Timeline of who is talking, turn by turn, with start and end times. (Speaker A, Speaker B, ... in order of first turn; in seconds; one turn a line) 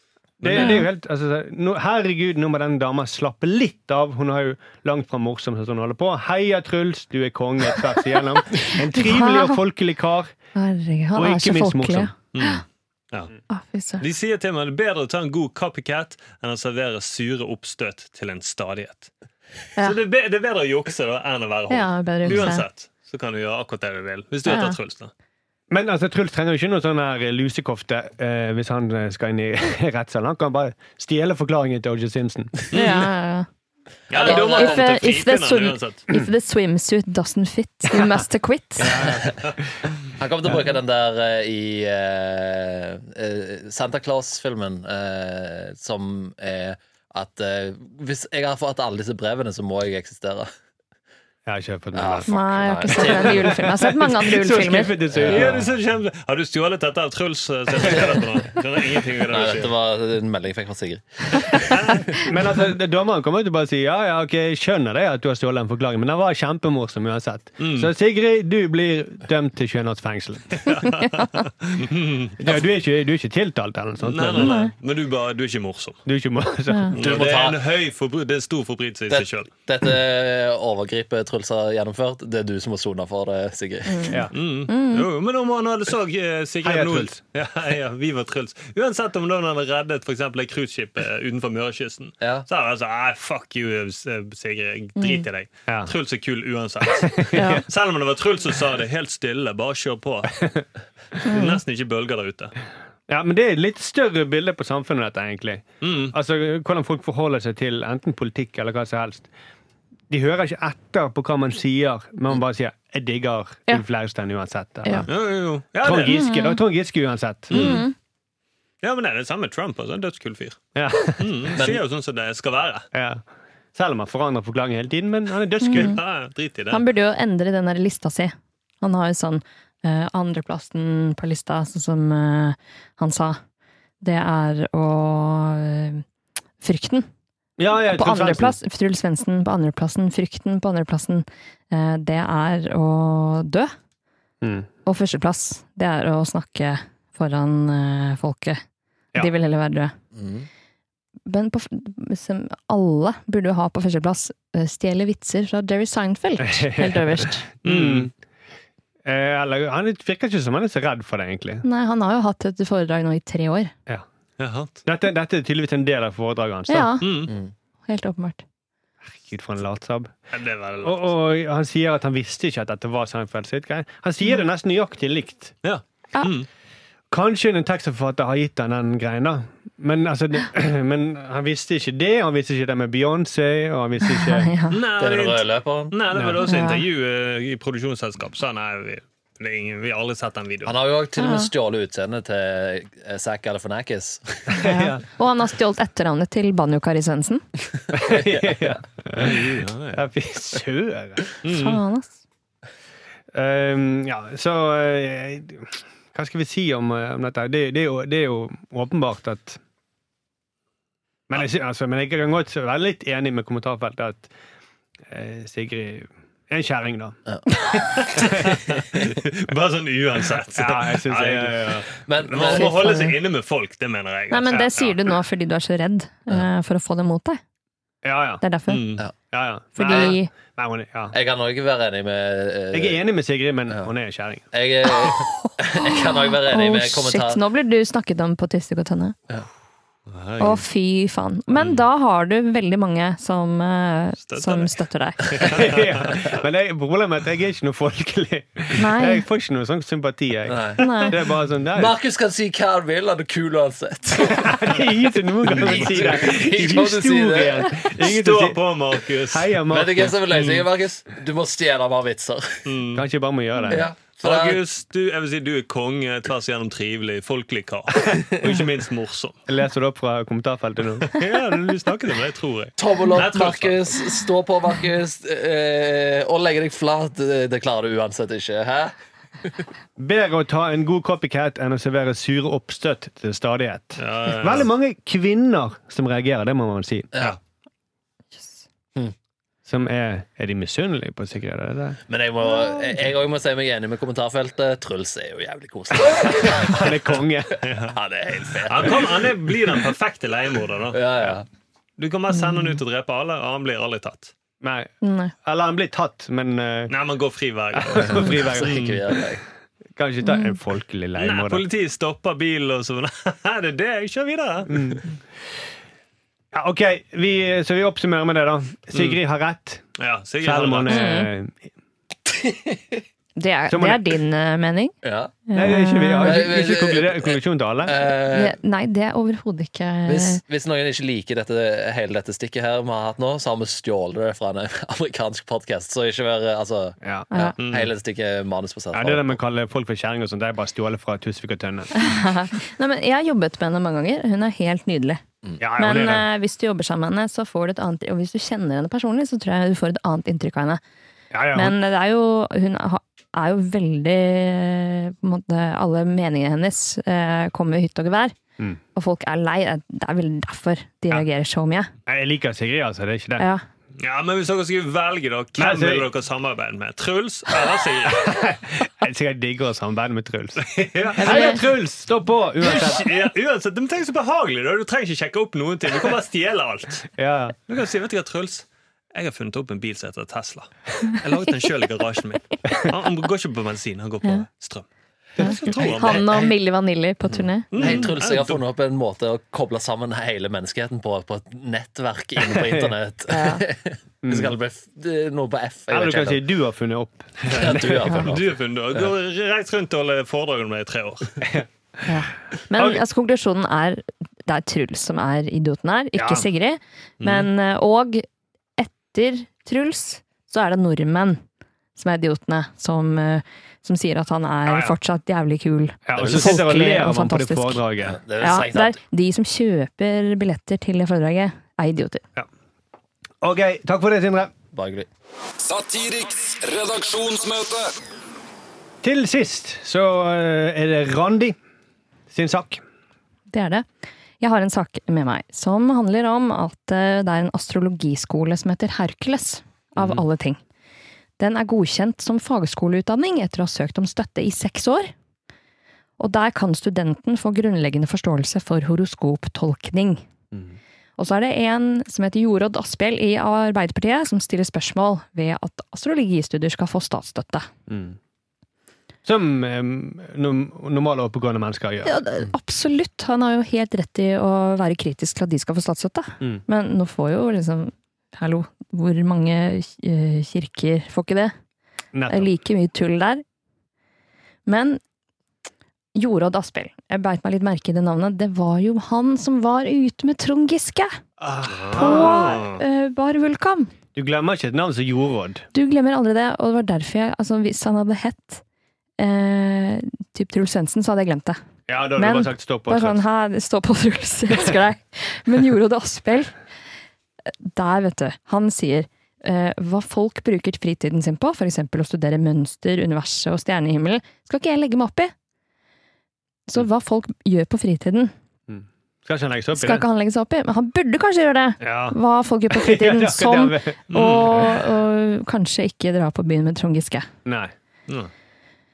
Speaker A: 0.4-0.8
Speaker B: 0.4-10.3
Speaker C: 0.6-0.8
Speaker C: 8.7-9.6
Speaker C: 10.5-12.6
Speaker B: 11.2-12.1
Speaker A: 12.3-13.3
Speaker C: 13.5-14.0
Speaker A: 14.0-19.1
Speaker A: 19.8-25.1
Speaker C: 21.7-22.6
Speaker C: 24.4-24.8
Speaker B: 25.7-32.5
Speaker A: 32.7-33.1
Speaker C: 32.7-33.5
Speaker D: 34.1-34.8
Speaker A: 34.1-36.0
Speaker C: 34.2-39.1
Speaker B: 38.8-39.3
Speaker D: 40.2-50.5
Speaker B: 51.5-52.3
Speaker D: 51.9-53.7
Speaker C: 52.3-55.0
Speaker B: 52.9-55.7
Speaker D: 55.1-55.6
Speaker A: 55.2-59.7
Speaker D: 57.8-58.1
Speaker D: 59.3-62.2
Speaker B: 62.1-70.8
Speaker A: 67.6-67.9
Speaker A: 70.7-72.4
Speaker C: 70.7-71.3
Speaker B: 72.4-74.5
Speaker A: 74.0-76.0
Speaker C: 74.4-74.7
Speaker B: 76.0-77.0
Speaker C: 76.7-76.9
Speaker A: 76.9-79.5
Speaker D: 77.0-77.6
Speaker D: 79.1-84.2
Speaker C: 83.9-85.0
Speaker A: 84.3-100.5
Speaker B: 86.6-87.2
Speaker C: 95.0-95.2
Speaker B: 95.7-95.9
Speaker B: 97.2-97.6
Speaker C: 97.3-97.6
Speaker A: 101.2-102.5
Speaker C: 101.2-101.6
Speaker B: 103.1-109.3
Speaker A: 105.8-106.1
Speaker B: 110.1-115.1
Speaker A: 115.1-116.2
Speaker B: 115.8-117.8
Speaker C: 116.1-116.6
Speaker A: 117.5-117.8
Speaker C: 117.5-117.9
Speaker A: 118.8-120.6
Speaker B: 120.7-121.4
Speaker A: 121.1-122.8
Speaker D: 121.5-121.8
Speaker B: 122.9-123.2
Speaker B: 123.7-126.0
Speaker C: 125.6-126.0
Speaker A: 125.7-126.8
Speaker C: 126.7-133.4
Speaker C: 134.0-136.0
Speaker C: 136.6-137.1
Speaker B: 137.6-138.6
Speaker C: 137.7-143.7
Speaker B: 144.4-144.7
Speaker C: 144.8-148.6
Speaker C: 149.1-149.9
Speaker D: 150.1-150.5
Speaker C: 151.2-157.4
Speaker B: 156.5-158.1
Speaker A: 157.6-158.1
Speaker B: 159.0-161.6
Speaker C: 161.6-163.7
Speaker A: 164.4-164.7
Speaker B: 164.8-166.9
Speaker C: 166.7-167.3
Speaker A: 167.0-167.3
Speaker C: 167.9-168.4
Speaker B: 169.0-170.1
Speaker A: 170.3-171.1
Speaker B: 170.8-175.5
Speaker A: 175.6-176.5
Speaker B: 177.1-184.5
Speaker C: 184.0-184.8
Speaker A: 184.7-190.7
Speaker D: 185.0-185.9
Speaker B: 186.1-186.4
Speaker C: 186.4-186.8
Speaker D: 190.6-194.6
Speaker C: 191.2-191.5
Speaker B: 194.5-195.0
Speaker C: 194.6-197.4
Speaker B: 197.9-201.2
Speaker D: 198.0-198.4
Speaker A: 199.1-200.0
Speaker A: 201.4-201.8
Speaker C: 201.4-202.2
Speaker B: 203.3-209.6
Speaker B: 211.3-214.3
Speaker B: 215.1-217.2
Speaker A: 217.9-225.0
Speaker B: 218.1-218.5
Speaker B: 220.5-221.9
Speaker D: 222.1-222.7
Speaker C: 222.4-223.2
Speaker C: 224.3-227.4
Speaker B: 228.0-228.4
Speaker C: 228.4-228.8
Speaker A: 228.7-229.1
Speaker B: 229.3-231.1
Speaker C: 229.7-230.3
Speaker D: 229.8-230.1
Speaker D: 231.1-233.0
Speaker B: 232.7-234.5
Speaker D: 234.5-237.4
Speaker C: 235.8-239.1
Speaker A: 240.1-240.6
Speaker C: 240.4-245.2
Speaker A: 244.3-244.7
Speaker A: 245.3-246.3
Speaker B: 245.4-251.9
Speaker C: 248.7-249.2
Speaker D: 250.5-250.8
Speaker C: 250.8-251.1
Speaker D: 251.7-254.8
Speaker B: 254.2-258.6
Speaker D: 255.4-257.9
Speaker A: 255.4-256.3
Speaker A: 258.0-259.5
Speaker B: 259.3-260.1
Speaker D: 259.7-262.6
Speaker A: 260.3-260.6
Speaker A: 262.6-263.0
Speaker B: 262.9-263.9
Speaker D: 263.7-264.6
Speaker A: 264.2-269.4
Speaker B: 269.5-271.2
Speaker A: 271.0-274.0
Speaker D: 272.8-278.9
Speaker B: 280.0-287.1
Speaker A: 283.9-284.7
Speaker C: 288.3-288.6
Speaker B: 289.6-292.0
Speaker D: 292.1-297.0
Speaker B: 296.2-297.6
Speaker A: 297.6-297.9
Speaker D: 297.9-299.3
Speaker A: 298.5-301.4
Speaker D: 300.9-301.4
Speaker A: 302.0-304.3
Speaker C: 302.3-302.8
Speaker B: 304.6-304.9
Speaker C: 305.0-305.3
Speaker B: 305.4-306.9
Speaker A: 306.9-309.0
Speaker B: 307.8-308.8
Speaker D: 307.9-309.4
Speaker B: 309.9-311.6
Speaker C: 310.2-310.6
Speaker A: 311.2-315.0
Speaker B: 314.7-315.0
Speaker B: 316.5-319.9
Speaker A: 318.9-319.2
Speaker A: 320.0-321.0
Speaker B: 320.4-321.7
Speaker C: 320.9-321.3
Speaker D: 322.3-323.0
Speaker C: 323.4-324.9
Speaker B: 323.7-324.0
Speaker D: 325.0-325.4
Speaker C: 325.5-326.4
Speaker B: 325.5-328.0
Speaker D: 326.2-328.6
Speaker C: 328.3-330.4
Speaker D: 330.1-339.4
Speaker B: 337.0-337.3
Speaker C: 337.3-337.6
Speaker A: 337.6-337.9
Speaker B: 338.9-341.9
Speaker C: 341.9-345.2
Speaker B: 345.6-346.3
Speaker C: 345.8-350.8
Speaker B: 351.3-351.8
Speaker C: 351.5-358.4
Speaker C: 358.9-361.9
Speaker B: 362.1-363.4
Speaker C: 363.4-363.6
Speaker A: 364.0-368.4
Speaker B: 365.6-366.1
Speaker B: 368.1-373.1
Speaker A: 370.6-371.6
Speaker C: 371.2-371.6
Speaker A: 372.6-377.1
Speaker B: 377.1-377.6
Speaker A: 377.7-386.3
Speaker B: 385.4-385.8
Speaker C: 385.4-387.9
Speaker D: 385.7-386.5
Speaker D: 387.3-396.4
Speaker A: 387.7-388.6
Speaker B: 392.4-392.9
Speaker C: 393.3-393.6
Speaker B: 394.2-394.6
Speaker B: 395.9-398.3
Speaker D: 397.5-399.1
Speaker A: 398.1-401.3
Speaker C: 402.1-408.2
Speaker B: 402.8-403.0
Speaker B: 406.1-406.5
Speaker A: 407.2-407.5
Speaker C: 408.8-411.4
Speaker C: 411.9-417.8
Speaker B: 414.7-414.9
Speaker B: 416.1-418.2
Speaker D: 416.1-416.6
Speaker D: 418.0-419.0
Speaker C: 418.4-422.2
Speaker B: 423.4-424.5
Speaker D: 424.7-425.1
Speaker E: 425.6-427.9
Speaker B: 429.0-431.6
Speaker B: 432.3-432.8
Speaker C: 433.5-433.9
Speaker C: 434.4-440.6
Speaker C: 441.4-445.1
Speaker C: 446.2-450.2
Speaker B: 450.5-450.8
Speaker C: 451.2-457.7
Speaker B: 457.9-458.2
Speaker B: 459.2-462.2
Speaker C: 462.0-471.5
Speaker B: 472.1-472.5
Speaker C: 472.3-473.4
Speaker C: 474.6-475.0
Speaker C: 476.1-481.1
Speaker B: 481.4-482.6
Speaker A: 481.7-482.8
Speaker C: 481.9-483.9
Speaker B: 484.1-485.6
Speaker C: 485.7-488.6
Speaker C: 489.2-491.6
Speaker B: 491.9-493.2
Speaker C: 492.2-496.5
Speaker C: 497.6-505.3
Speaker C: 506.7-508.3
Speaker B: 508.7-510.0
Speaker C: 509.7-517.3
Speaker B: 511.8-512.2
Speaker B: 512.7-514.8
Speaker A: 514.1-514.6
Speaker B: 517.4-517.7